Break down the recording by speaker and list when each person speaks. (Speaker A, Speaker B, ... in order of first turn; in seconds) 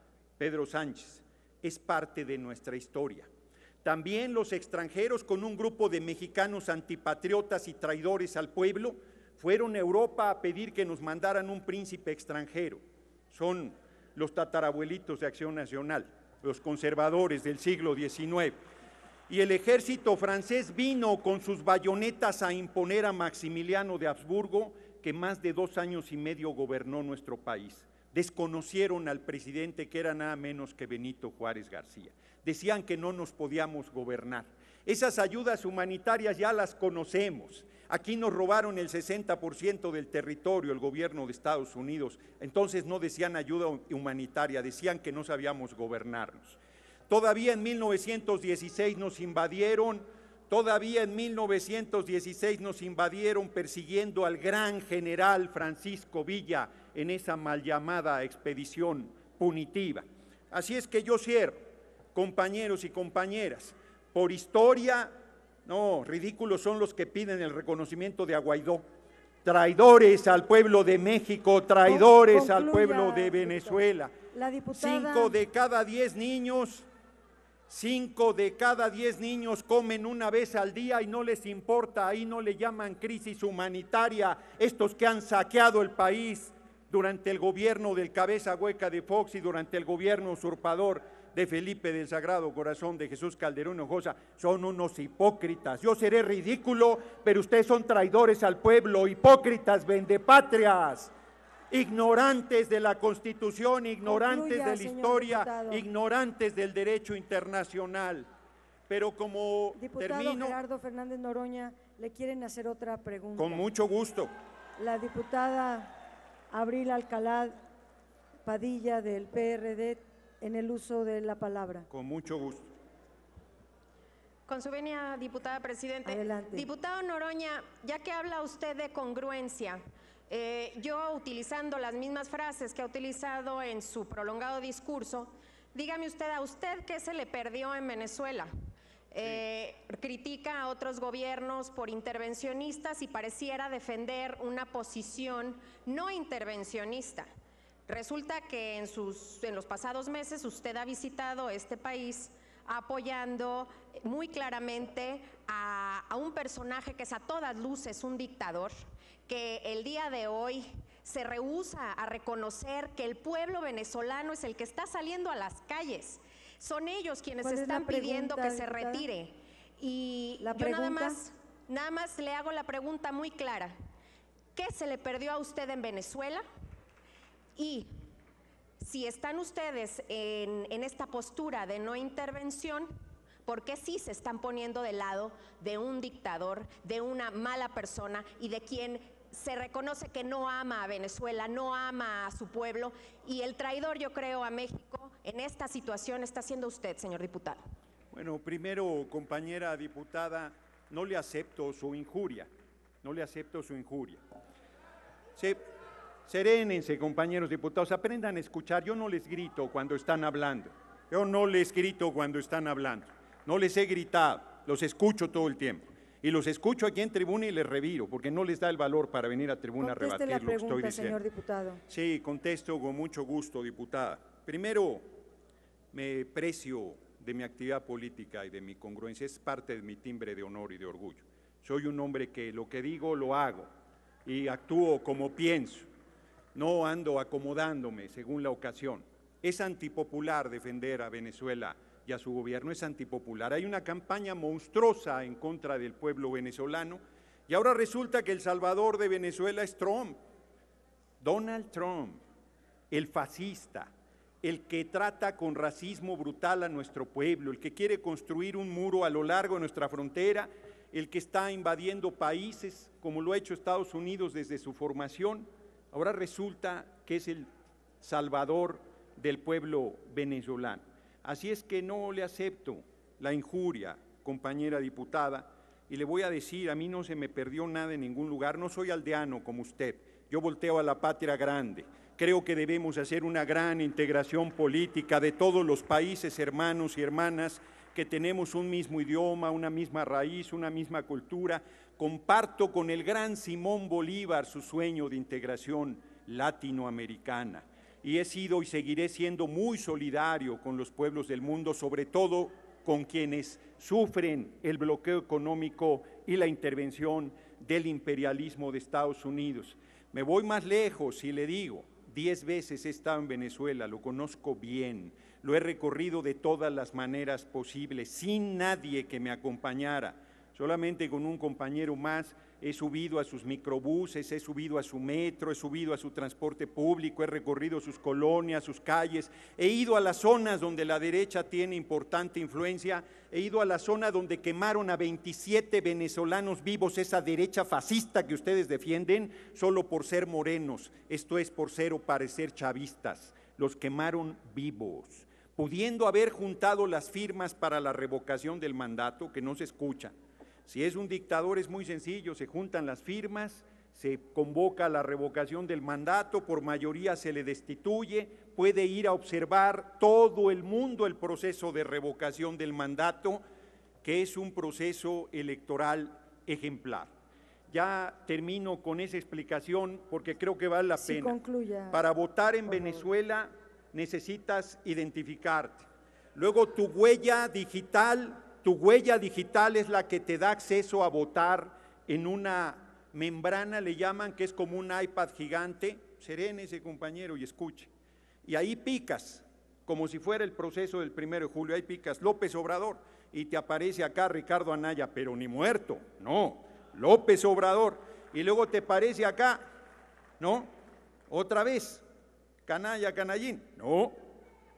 Speaker A: 0.4-3.3, 3.8-18.6, 19.3-68.8, 69.4-74.1, 74.7-76.9, 77.7-101.1, 101.7-108.3, 108.9-110.6, 113.4-114.3, 121.9-122.7, 198.1-202.5, 203.0-204.2, 206.3-221.2, 221.9-225.1, 225.9-233.7, 234.2-235.9, 236.5-250.2, 251.2-252.2, 252.9-253.9, 254.4-267.5, 268.0-350.1, 350.7-363.4, 364.0-367.1, 367.7-371.4, 371.9-387.9, 388.4-399.6, 400.4-400.7, 401.3-402.0, 402.6-404.1
Speaker B: 71.8-73.8, 74.3-75.3, 104.0-105.8, 109.8-113.7, 114.8-115.9, 116.5-117.5, 118.4-121.9, 126.0-126.7, 167.4-169.1, 170.4-171.2, 219.8-221.8, 370.9-372.0, 372.7-373.0
Speaker C: 124.5-138.5, 139.1-147.3, 147.9-158.7, 159.3-173.7, 174.5-176.4, 177.6-177.9, 178.8-182.9, 183.4-197.6